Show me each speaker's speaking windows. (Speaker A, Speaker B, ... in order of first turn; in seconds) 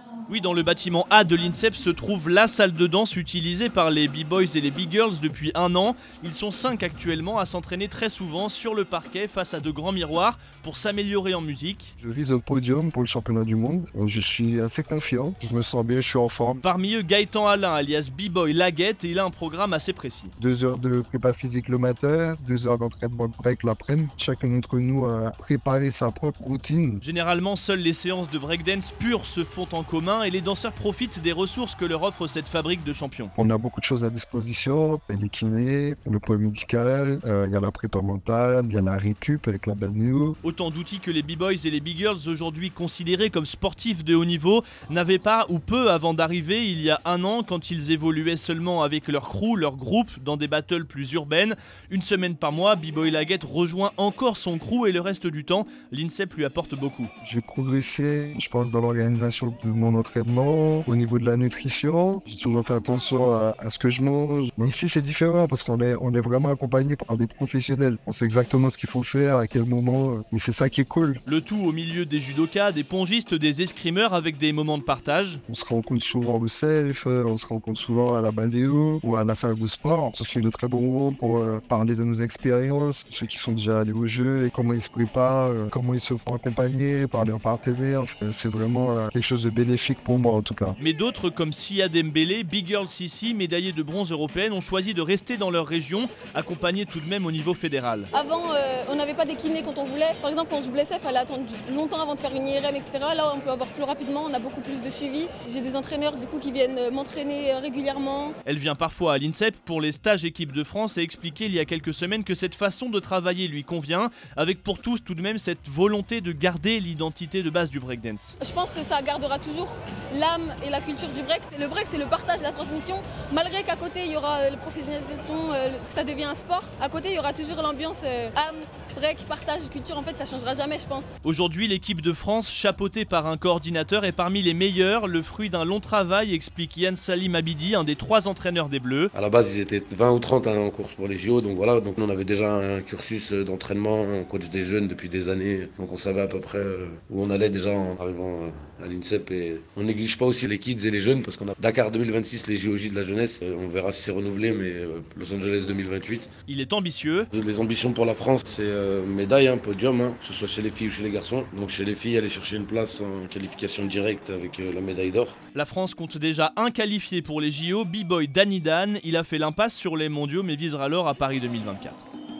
Speaker A: 0.3-11.9, 16.6-20.3, 27.0-33.3, 40.4-57.1, 71.2-75.4, 90.8-98.1, 108.5-118.3, 131.2-139.1, 156.5-157.3, 165.5-172.1
Speaker B: 12.0-16.6, 20.4-27.0, 33.4-40.4, 57.2-71.2, 75.5-90.8
Speaker C: 98.1-108.3, 118.4-131.1
Speaker D: 139.1-156.3, 157.3-165.4